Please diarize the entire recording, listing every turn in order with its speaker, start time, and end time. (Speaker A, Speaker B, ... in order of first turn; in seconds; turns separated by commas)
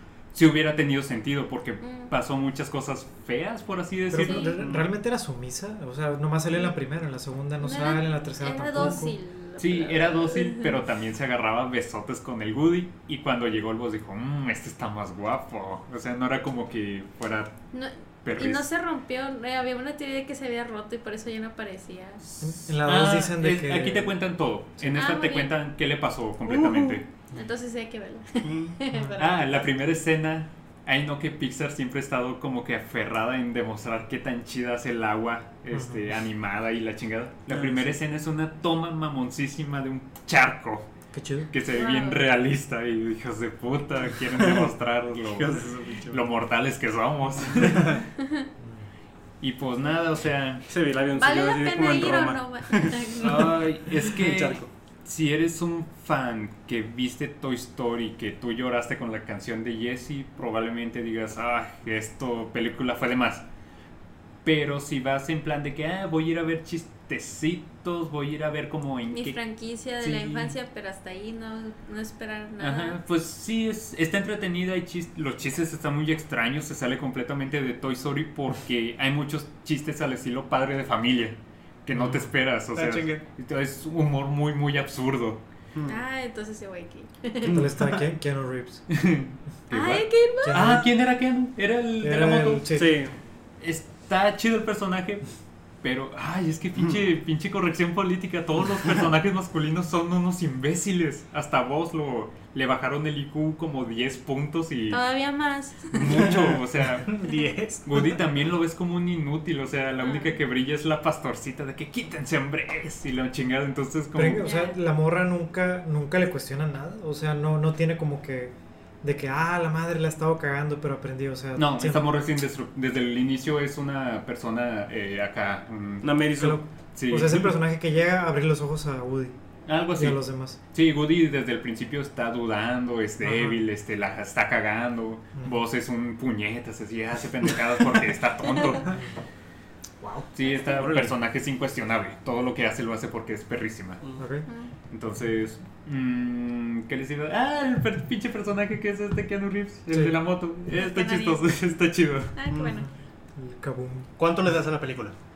Speaker A: 0.3-4.6, Speaker B: 1.8-2.1, Speaker C: 4.1-9.2, Speaker B: 4.2-4.5, Speaker D: 4.6-4.9, Speaker B: 7.6-10.8, Speaker A: 9.6-17.6, Speaker B: 17.7-22.2, Speaker A: 18.2-18.6, Speaker A: 22.2-27.1, Speaker C: 22.4-24.1, Speaker B: 24.9-25.5, Speaker D: 26.6-26.9, Speaker B: 27.3-29.6, Speaker D: 28.4-28.8, Speaker A: 29.2-40.9, Speaker C: 35.7-36.0, Speaker D: 37.5-37.9, Speaker C: 41.1-41.5, Speaker A: 41.5-48.0, Speaker B: 41.7-42.3, Speaker D: 44.4-44.7, Speaker D: 45.3-46.2, Speaker A: 49.4-50.6, Speaker D: 50.7-54.7, Speaker B: 51.1-53.6, Speaker A: 53.2-63.5, Speaker A: 64.4-69.4, Speaker B: 69.1-73.0, Speaker A: 70.0-70.5, Speaker A: 72.6-85.4, Speaker C: 82.0-82.2, Speaker E: 82.7-83.2, Speaker D: 85.8-86.0, Speaker B: 85.9-87.6, Speaker C: 87.5-88.8, Speaker A: 88.9-92.7, Speaker B: 89.7-90.8, Speaker C: 90.5-90.9, Speaker C: 92.0-93.0, Speaker D: 92.7-93.2, Speaker A: 93.6-95.3, Speaker A: 95.8-105.0, Speaker B: 104.9-106.3, Speaker A: 105.9-107.3, Speaker E: 107.0-108.1, Speaker A: 107.8-114.5, Speaker B: 110.0-110.4, Speaker C: 114.2-122.0, Speaker B: 114.3-114.8, Speaker A: 121.6-126.3, Speaker D: 126.0-126.6, Speaker C: 126.4-129.3, Speaker A: 127.0-127.5, Speaker A: 129.7-139.0, Speaker C: 129.9-130.6, Speaker C: 133.2-133.6, Speaker A: 140.3-144.0, Speaker D: 140.7-141.1, Speaker C: 144.2-144.4, Speaker A: 144.9-152.3, Speaker B: 150.7-151.5, Speaker B: 152.3-152.9, Speaker C: 153.4-154.1, Speaker E: 154.2-155.2